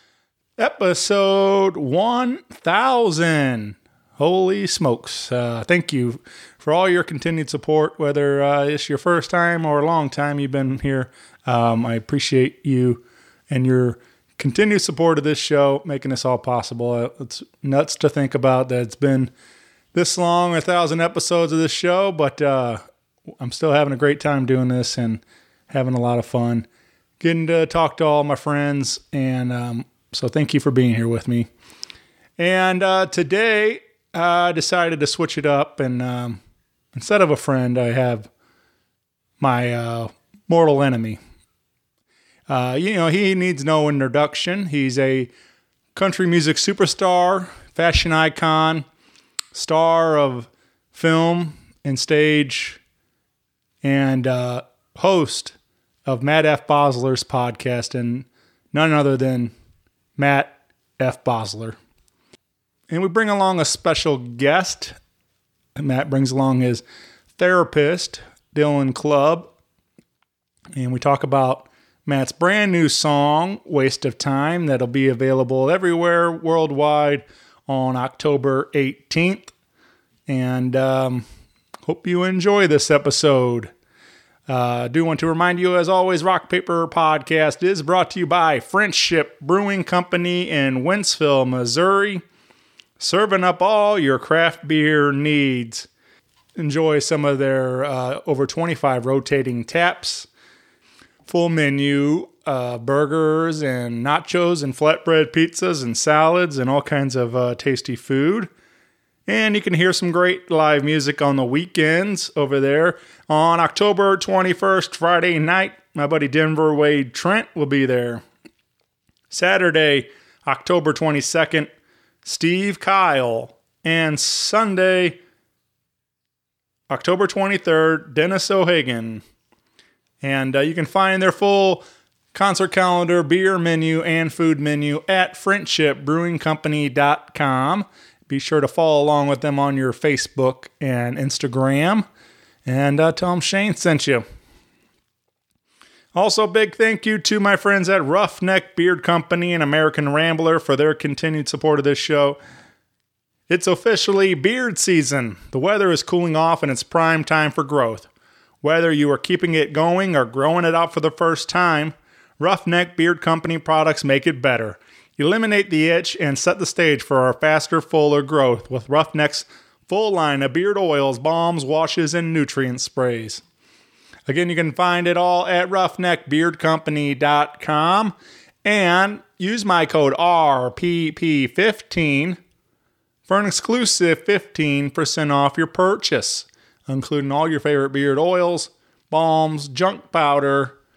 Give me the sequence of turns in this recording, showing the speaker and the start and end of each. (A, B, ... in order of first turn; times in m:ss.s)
0:00.6-0:19.3 A
0:19.9-0:22.8 A
0:23.4-0:26.7 A
0:27.2-0:31.5 A
0:32.4-0:36.4 A
0:36.9-0:38.3 A
0:39.4-0:41.2 A
0:42.5-0:45.3 A
0:46.0-0:48.8 A
0:49.5-0:52.8 A
0:53.8-0:55.6 A
0:56.1-0:59.5 A
1:00.2-1:01.8 A
1:02.9-1:05.0 A
1:05.8-1:06.8 A
1:07.4-1:09.5 A
1:10.8-1:19.5 A
1:20.3-1:21.2 A
1:21.8-1:23.7 A
1:24.5-1:32.2 A
1:33.0-1:35.9 A
1:36.6-1:40.3 A
1:41.3-1:48.5 A
1:49.3-1:58.2 A
1:59.3-2:01.7 A
2:02.2-2:05.2 A
2:06.9-2:09.2 A
2:10.2-2:22.0 A
2:22.6-2:24.2 A
2:26.2-2:32.4 A
2:33.5-2:38.1 A
2:38.6-2:53.4 A
2:54.3-3:02.4 A
3:03.3-3:10.8 A